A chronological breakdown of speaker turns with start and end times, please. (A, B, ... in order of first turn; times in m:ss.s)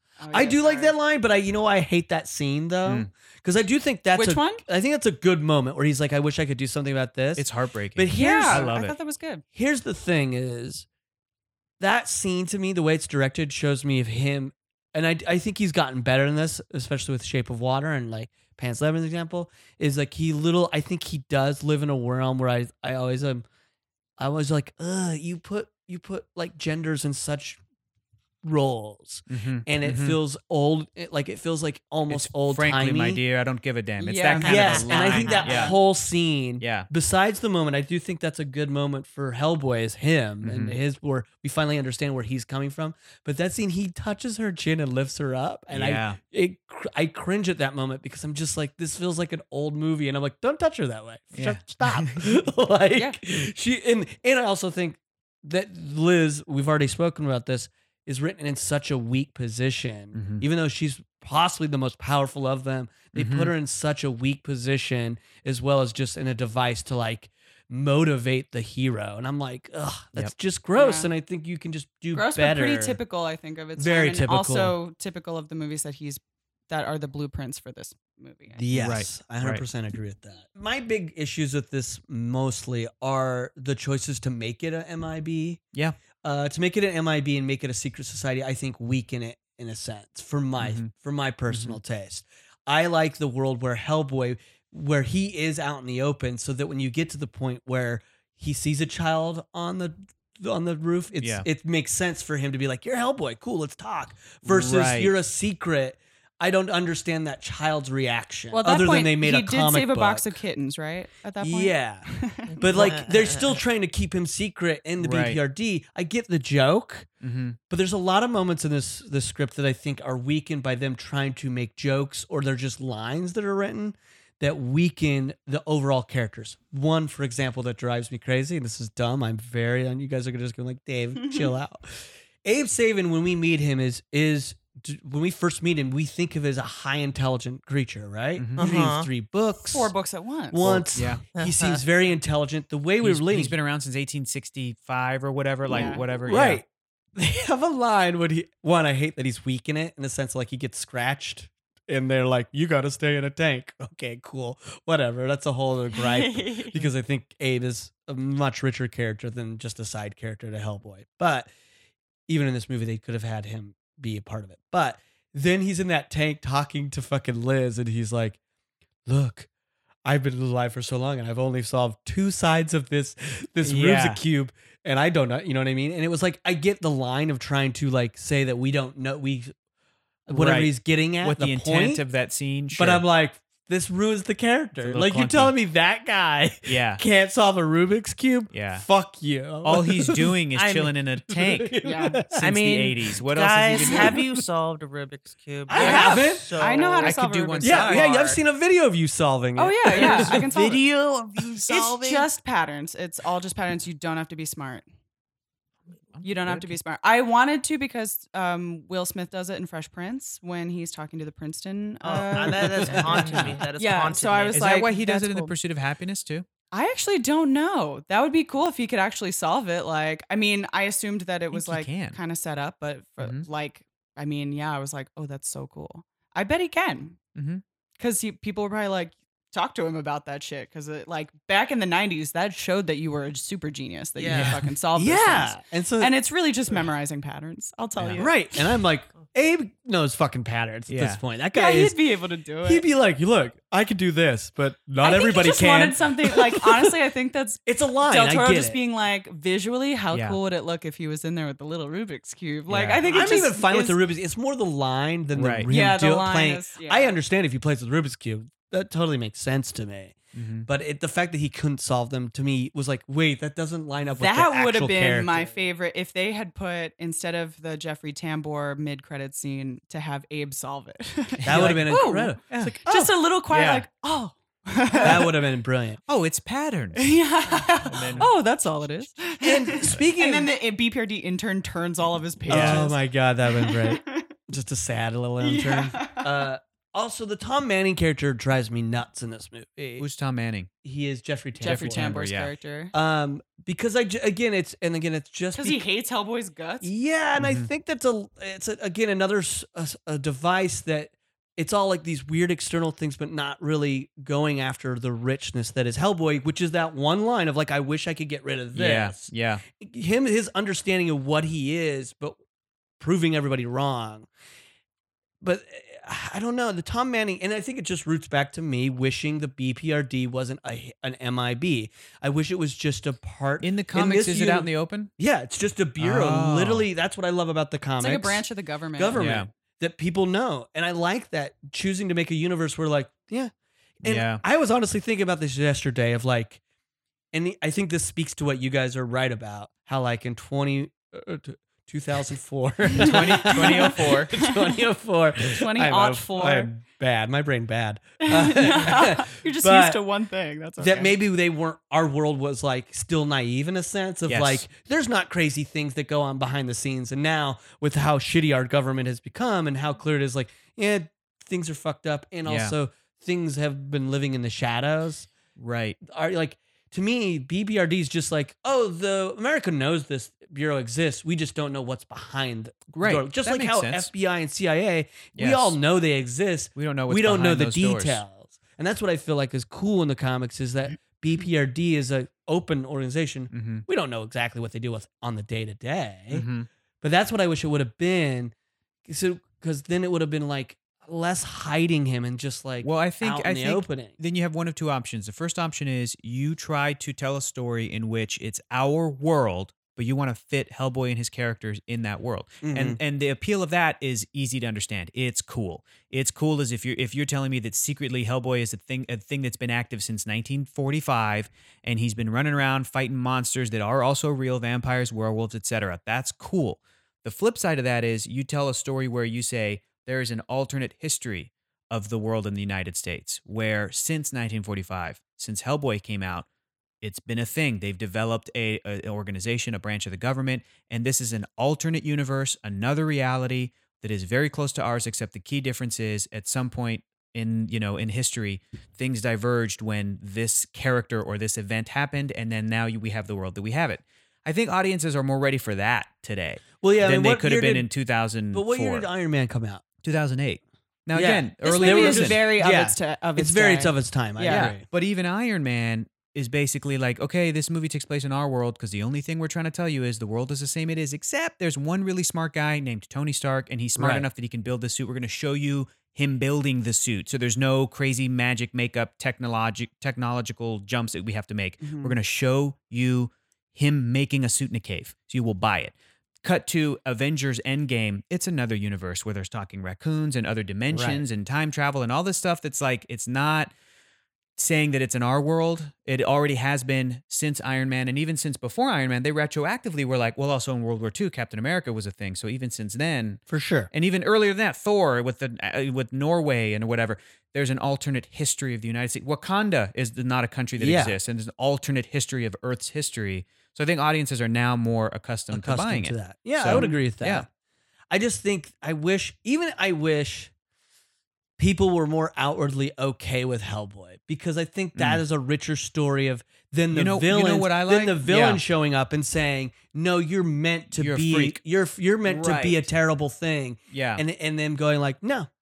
0:00.2-0:01.0 A
0:00.3-0:08.7 B
0:04.2-0:04.6 A
0:07.4-0:09.0 C
0:08.2-0:09.4 A
0:09.5-0:10.9 B
0:11.8-0:23.4 B
0:24.2-0:27.6 B
0:28.4-0:33.2 B
0:29.3-0:30.2 C
0:32.1-0:35.8 C
0:34.0-0:35.6 A
0:34.4-1:13.0 B
0:34.4-0:35.8 D
0:36.6-0:36.9 C
0:40.4-0:40.8 C
0:45.7-0:46.2 C
0:51.3-0:52.2 C
1:00.1-1:00.4 C
1:03.2-1:03.5 C
1:10.8-1:11.1 A
1:12.1-1:18.6 A
1:13.8-1:14.8 B
1:18.6-1:25.6 B
1:18.7-1:19.6 C
1:26.2-1:50.4 B
1:30.6-1:30.9 C
1:31.5-1:31.8 C
1:41.2-1:41.5 C
1:44.4-1:45.1 C
1:48.5-1:52.5 A
1:51.4-1:57.1 B
1:52.5-1:53.6 D
1:55.0-1:55.4 C
1:57.2-1:57.6 C
1:57.7-2:19.9 B
2:11.2-2:11.4 A
2:18.4-2:18.6 C
2:18.6-2:19.1 D
2:19.6-2:20.6 A
2:20.5-2:23.6 B
2:20.6-2:21.2 C
2:21.4-2:21.8 D
2:23.0-2:26.6 C
2:25.7-2:26.0 A
2:25.7-2:41.5 B
2:35.9-2:36.8 A
2:42.3-2:48.4 B
2:49.1-2:49.5 B
2:50.0-2:59.5 B
2:53.6-2:54.2 C
3:00.3-3:02.0 B
3:00.3-3:03.0 C
3:02.7-3:10.4 B
3:04.8-3:05.6 C
3:06.6-3:07.0 C
3:08.5-3:08.9 C
3:09.6-3:11.7 C
3:10.6-3:10.9 D
3:11.3-3:12.6 B
3:11.8-3:12.2 A
3:12.4-3:14.2 C
3:12.4-3:17.2 D
3:15.7-3:16.6 B
3:15.8-3:18.4 A
3:15.8-3:16.1 C
3:17.0-3:18.1 C
3:17.6-3:20.4 B
3:19.6-3:20.8 A
3:20.0-3:22.3 D
3:21.7-3:24.9 A
3:26.2-3:26.8 C
3:26.2-3:35.5 A
3:32.0-3:34.6 D
3:33.0-3:33.6 C
3:34.5-3:36.5 C
3:36.7-3:47.2 A
3:41.5-3:42.2 C
3:43.2-3:43.5 C
3:47.4-3:47.6 C
3:48.0-3:58.7 A
3:54.2-3:54.6 D
3:54.3-3:54.7 C
3:55.0-3:56.2 B
3:58.0-3:58.3 C
3:58.2-4:02.0 B
4:00.9-4:01.2 C
4:01.5-4:02.8 A
4:02.6-4:07.0 B
4:05.0-4:14.0 A
4:07.7-4:08.8 B
4:10.1-4:10.4 C
4:12.7-4:13.0 C
4:13.0-4:25.6 B
4:15.4-4:15.7 C
4:15.7-4:17.2 A
4:20.4-4:20.7 C
4:24.0-4:35.3 A
4:31.5-4:33.1 B
4:31.5-4:33.9 C
4:35.0-4:36.0 B
4:36.1-4:37.2 C
4:37.0-4:44.3 A
4:37.7-4:38.3 C
4:37.9-4:38.2 B
4:39.4-4:40.5 B
4:42.5-4:42.9 C
4:42.5-4:50.1 B
4:45.4-4:46.4 A
4:50.0-4:50.7 C
4:50.8-4:52.2 B
4:51.6-4:52.9 A
4:51.6-4:52.5 C
4:52.9-4:55.8 B
4:55.6-4:56.9 A
4:56.8-5:12.4 B
4:57.4-4:57.7 C
5:08.7-5:09.6 C
5:13.0-5:14.3 B
5:15.4-5:36.6 B
5:23.6-5:25.1 C
5:26.0-5:26.9 C
5:28.0-5:29.2 A
5:29.1-5:29.5 C
5:34.0-5:34.4 C
5:37.3-5:50.0 B
5:42.9-5:44.3 C
5:42.9-5:44.8 A
5:45.5-5:46.7 A
5:48.2-5:51.2 A
5:50.8-6:05.3 B
5:54.3-5:54.7 C
6:02.4-6:02.8 C
6:05.6-6:06.0 C
6:06.0-6:26.5 B
6:12.9-6:14.1 C
6:15.4-6:15.8 C
6:16.8-6:18.2 C
6:23.5-6:23.8 C
6:26.3-6:26.7 C
6:27.0-6:28.5 B
6:29.1-6:34.2 B
6:32.8-7:06.5 C
6:42.6-6:43.0 B
7:07.0-7:29.1 C
7:26.8-7:27.9 B
7:28.5-7:29.8 B
7:30.0-7:32.4 C
7:31.1-7:34.8 B
7:31.6-7:34.7 A
7:34.5-8:03.7 C
7:44.0-7:44.3 B
7:51.8-7:52.2 A
8:00.9-8:01.2 B
8:04.6-8:27.5 C
8:13.5-8:13.9 B
8:20.8-8:21.2 B
8:25.5-8:27.5 B
8:26.7-8:27.0 A
8:28.1-8:30.5 B
8:31.6-8:45.5 B
8:35.0-8:35.2 C
8:36.9-8:38.6 C
8:40.9-8:41.6 C
8:42.2-8:42.8 C
8:43.9-8:44.2 C